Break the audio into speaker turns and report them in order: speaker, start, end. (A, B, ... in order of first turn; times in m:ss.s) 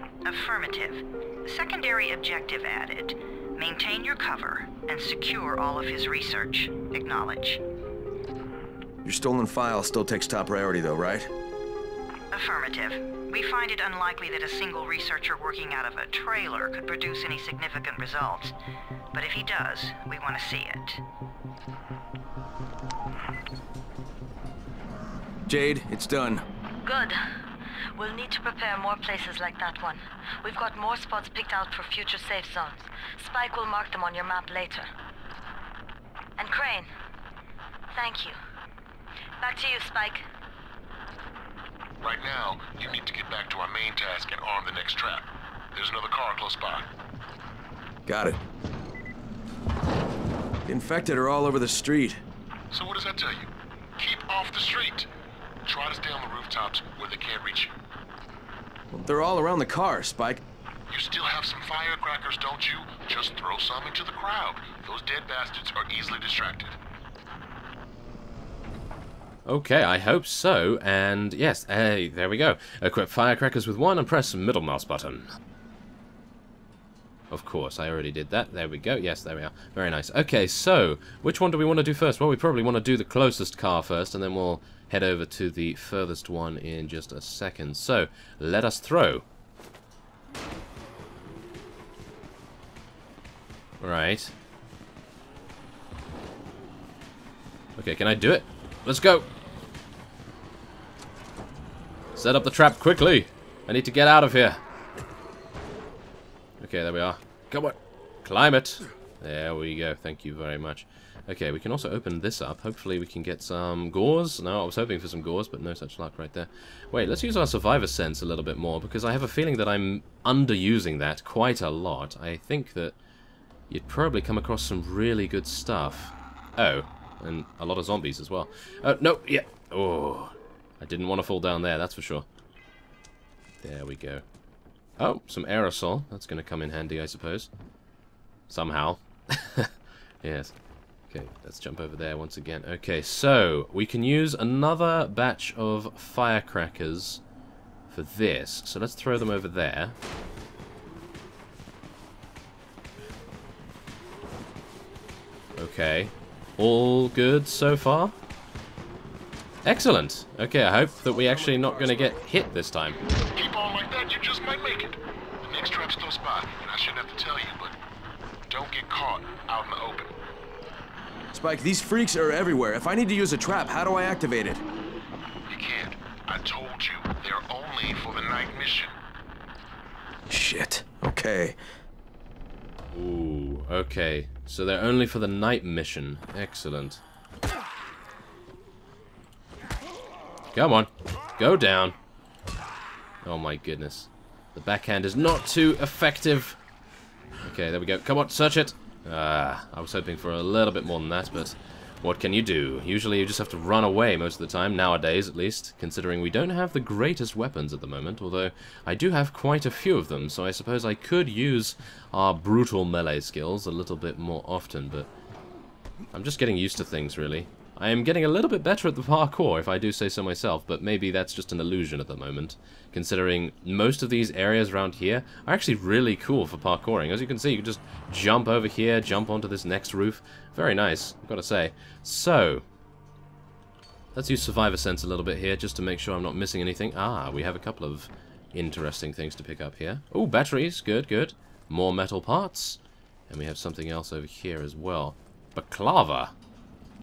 0:00.2-0:07.6 A
0:09.0-0:11.3 B
0:12.3-0:18.5 A
0:19.1-0:21.0 A
0:25.5-0:26.4 B
0:26.8-0:27.2 C
0:28.0-0:34.9 C
0:36.4-0:36.9 C
0:37.9-0:38.4 C
0:39.4-0:40.2 C
0:42.0-0:46.9 D
0:48.1-0:48.4 B
0:50.6-0:52.2 B
0:52.7-0:55.1 D
0:55.6-0:57.7 D
0:58.9-1:00.4 B
1:00.9-1:06.8 D
1:09.4-1:15.3 E
1:17.3-1:29.2 E
1:33.8-1:34.3 E
1:37.8-1:39.3 E
1:42.1-1:44.6 E
1:46.6-2:03.0 E
2:03.7-2:12.3 E
2:13.6-2:14.2 E
2:15.0-2:17.5 E
2:18.5-2:19.7 E
2:20.2-2:20.5 E
2:21.1-2:27.2 E
2:27.9-2:30.0 E
2:35.6-2:38.1 E
2:39.6-2:43.0 E
2:41.3-2:42.1 B
2:43.3-2:47.7 D
2:48.5-2:50.1 D
2:51.3-2:54.6 B
2:55.5-2:59.0 D
3:00.3-3:01.6 B
3:02.9-3:07.0 E
3:10.5-3:12.0 E
3:13.2-3:16.6 E
3:17.4-3:35.1 E
3:36.1-3:52.6 E
3:54.1-4:06.3 E